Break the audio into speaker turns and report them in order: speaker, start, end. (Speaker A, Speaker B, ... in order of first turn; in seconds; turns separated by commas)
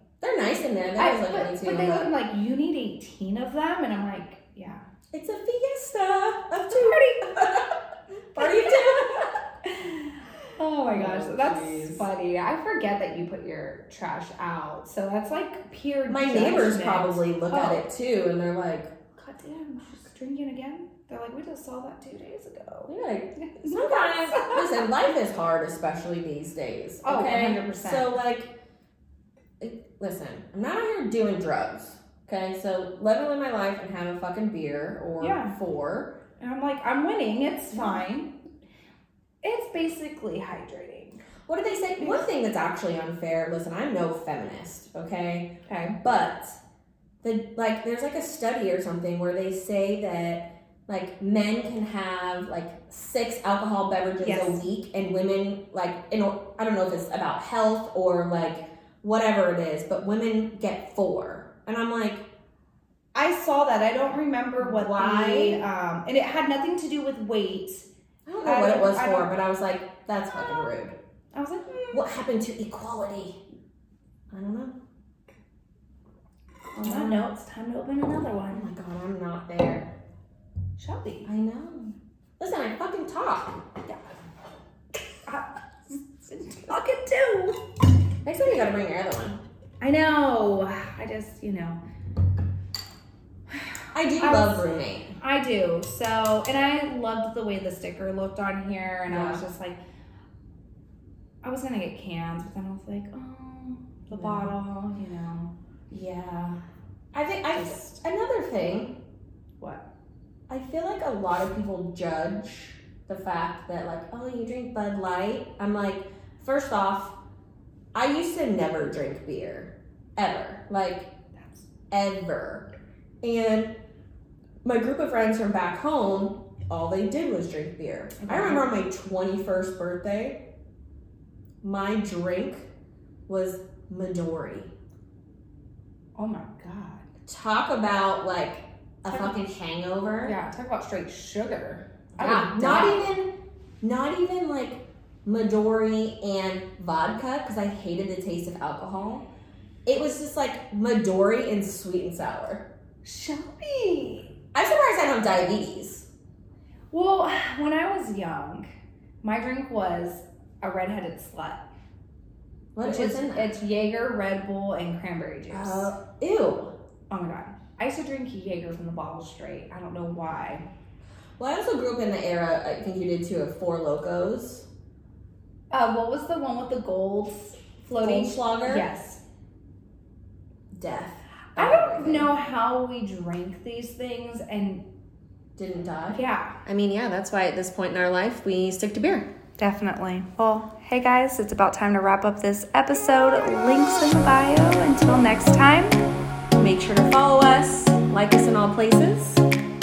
Speaker A: 0.2-2.1, Speaker B: 1.0-4.8, Speaker A: 5.1-7.7, Speaker B: 6.7-7.7, Speaker A: 8.3-9.3, Speaker B: 8.3-17.8, Speaker A: 10.8-12.1, Speaker A: 16.1-18.9, Speaker B: 19.1-24.8, Speaker A: 22.9-28.5, Speaker B: 27.0-28.2, Speaker A: 29.6-36.1, Speaker B: 35.2-35.5, Speaker B: 36.4-38.3, Speaker A: 37.7-38.0, Speaker B: 39.4-41.2, Speaker A: 41.5-45.5, Speaker B: 42.0-42.3, Speaker B: 45.6-46.0, Speaker A: 46.0-46.6, Speaker A: 47.2-62.2, Speaker B: 54.2-54.6, Speaker B: 63.1-67.9, Speaker A: 64.6-65.6, Speaker A: 68.2-70.9, Speaker B: 68.4-69.3, Speaker B: 71.3-72.0, Speaker A: 71.9-73.4, Speaker A: 74.3-74.7, Speaker B: 76.7-78.7, Speaker A: 76.8-77.2, Speaker A: 78.5-79.9, Speaker B: 80.8-81.3, Speaker A: 81.2-83.6, Speaker B: 85.2-87.6, Speaker A: 88.2-89.4, Speaker B: 89.8-91.8, Speaker B: 93.5-94.7, Speaker A: 93.9-95.2, Speaker B: 95.2-99.8, Speaker A: 99.1-99.4, Speaker B: 101.4-105.5, Speaker A: 104.1-104.5, Speaker A: 105.9-106.6, Speaker A: 107.1-108.9, Speaker B: 107.5-107.9, Speaker A: 110.5-117.2, Speaker A: 117.9-121.1, Speaker B: 121.3-121.6, Speaker A: 121.9-122.7, Speaker A: 123.2-123.7, Speaker A: 124.6-130.4, Speaker B: 128.2-128.6, Speaker A: 131.6-132.7, Speaker A: 133.3-134.7, Speaker B: 136.2-137.0, Speaker A: 137.3-140.3, Speaker B: 139.1-139.3, Speaker B: 140.2-143.0, Speaker A: 142.2-143.3, Speaker A: 143.8-149.2, Speaker A: 149.8-152.6, Speaker B: 153.0-154.3, Speaker A: 154.5-156.1, Speaker B: 156.9-158.7, Speaker B: 159.2-161.6, Speaker A: 162.7-163.5, Speaker B: 162.8-165.9, Speaker A: 165.5-166.7, Speaker B: 167.1-170.7, Speaker A: 171.4-174.7, Speaker B: 175.7-179.2, Speaker A: 178.0-178.8, Speaker A: 180.7-182.3, Speaker B: 181.6-184.8, Speaker A: 185.6-189.3, Speaker B: 186.1-186.6, Speaker B: 189.6-196.0, Speaker A: 196.6-199.4